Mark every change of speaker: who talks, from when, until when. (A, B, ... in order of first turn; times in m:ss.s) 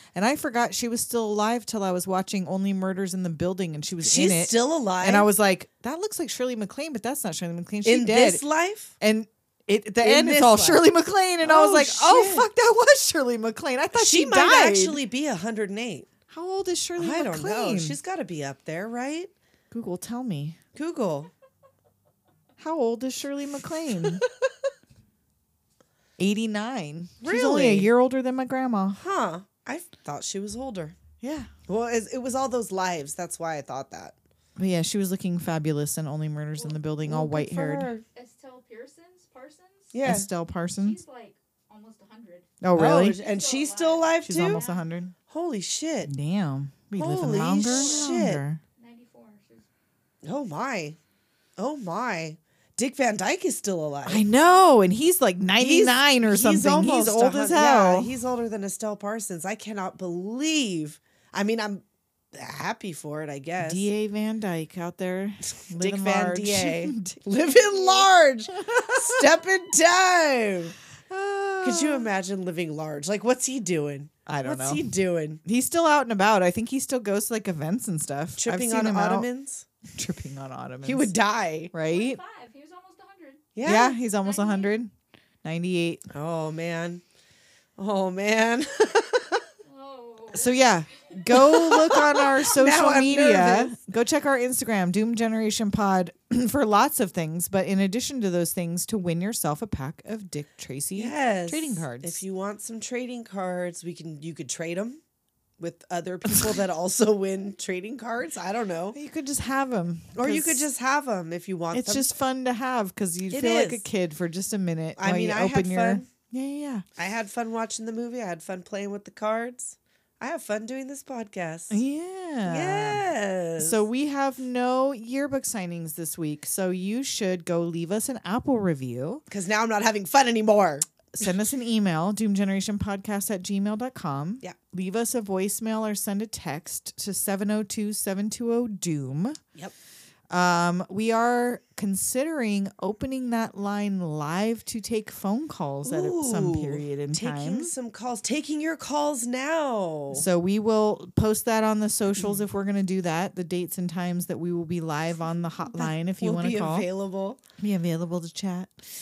0:00.2-0:08.4 A
0:04.0-0:05.3 B
0:07.8-0:08.9 B
0:09.0-0:15.0 A
0:10.0-0:10.8 B
0:11.4-0:12.5 B
0:13.9-0:16.1 B
0:16.3-0:18.0 A
0:17.0-0:19.3 B
0:19.7-0:20.6 A
0:20.8-0:21.3 B
0:22.6-0:24.2 A
0:26.2-0:29.0 A
0:27.2-0:27.9 B
0:29.0-0:31.0 B
0:31.2-0:31.5 A
0:31.7-0:34.2 B
0:34.6-0:37.9 A
0:37.1-0:38.0 B
0:38.1-0:40.0 C
0:39.9-0:40.3 B
0:40.0-0:41.0 A
0:40.7-0:44.9 C
0:42.6-0:43.2 A
0:42.8-0:44.6 B
0:44.3-0:45.1 A
0:45.3-0:46.1 B
0:46.1-0:48.6 A
0:47.0-0:48.4 B
0:47.6-0:48.2 C
0:48.8-0:49.7 C
0:50.2-0:51.0 B
0:51.6-0:54.2 B
0:54.1-0:58.1 A
0:55.6-1:03.9 B
1:03.6-1:07.2 A
1:05.8-1:10.8 B
1:08.7-1:09.2 A
1:11.1-1:12.1 A
1:11.6-1:15.4 B
1:14.3-1:14.9 A
1:15.4-1:19.3 A
1:18.4-1:19.6 B
1:19.9-1:21.1 A
1:20.8-1:21.7 B
1:21.7-1:22.2 A
1:21.9-1:24.8 C
1:23.6-1:24.0 B
1:23.6-1:24.9 A
1:25.4-1:26.0 A
1:26.1-1:27.0 B
1:27.8-1:29.4 B
1:29.6-1:31.0 C
1:30.3-1:42.2 A
1:31.3-1:33.8 B
1:41.0-1:45.0 B
1:45.6-1:49.0 B
1:48.9-1:50.7 A
1:50.2-1:52.1 B
1:51.7-1:56.8 A
1:53.3-1:53.9 B
1:55.0-1:56.1 B
1:57.0-2:01.8 B
2:01.7-2:03.0 A
2:02.5-2:03.8 B
2:03.6-2:09.2 A
2:09.3-2:11.2 B
2:11.2-2:19.4 A
2:20.3-2:27.7 A
2:25.8-2:30.3 B
2:30.1-2:36.9 A
2:35.7-2:37.4 B
2:37.6-2:38.8 A